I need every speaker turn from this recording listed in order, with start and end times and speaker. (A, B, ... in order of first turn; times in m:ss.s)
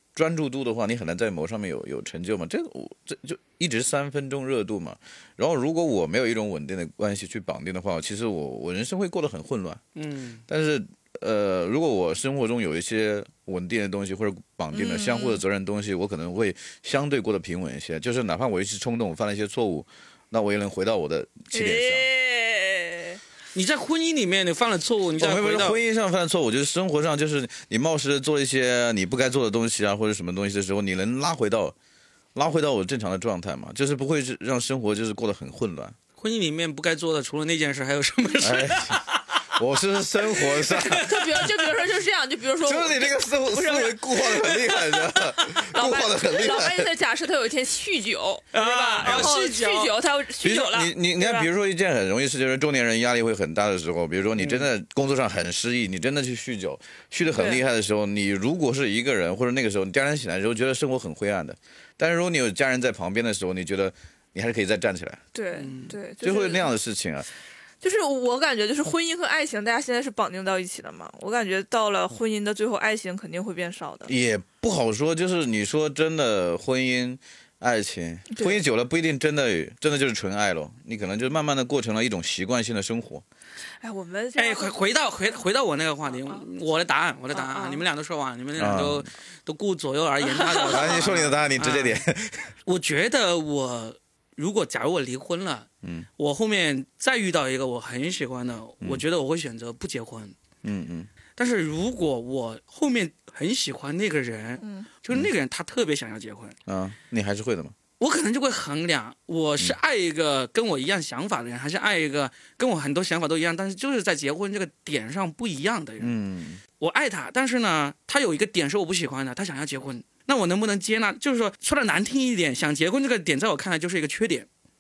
0:00.2-0:09.8 A
0:10.0-0:10.4 B
0:10.5-0:22.1 A
0:14.7-0:15.4 C
0:21.5-0:23.2 C
0:23.6-0:25.8 B
0:25.2-0:31.8 A
0:32.4-0:36.0 A
0:36.2-0:39.4 B
0:38.4-0:41.3 A
0:40.6-0:41.4 B
0:40.9-0:44.4 C
0:42.6-0:46.9 A
0:45.7-0:51.5 C
0:48.5-0:49.9 B
0:49.0-0:49.3 A
0:50.4-1:05.2 A
0:57.3-0:57.6 C
1:05.3-1:06.7 C
1:05.6-1:06.0 B
1:06.2-1:07.3 A
1:07.8-1:14.1 C
1:14.1-1:23.2 A
1:18.3-1:18.6 C
1:23.8-1:24.8 C
1:24.4-1:32.0 B
1:27.3-1:27.8 C
1:28.6-1:29.1 A
1:30.4-1:31.0 C
1:30.6-1:32.5 A
1:32.7-1:35.7 B
1:35.8-1:36.1 A
1:36.2-1:40.4 B
1:40.6-1:41.1 A
1:41.4-1:46.6 B
1:44.6-1:44.9 C
1:46.7-1:47.8 A
1:48.0-1:56.1 B
1:56.0-1:56.6 A
1:56.8-2:04.5 B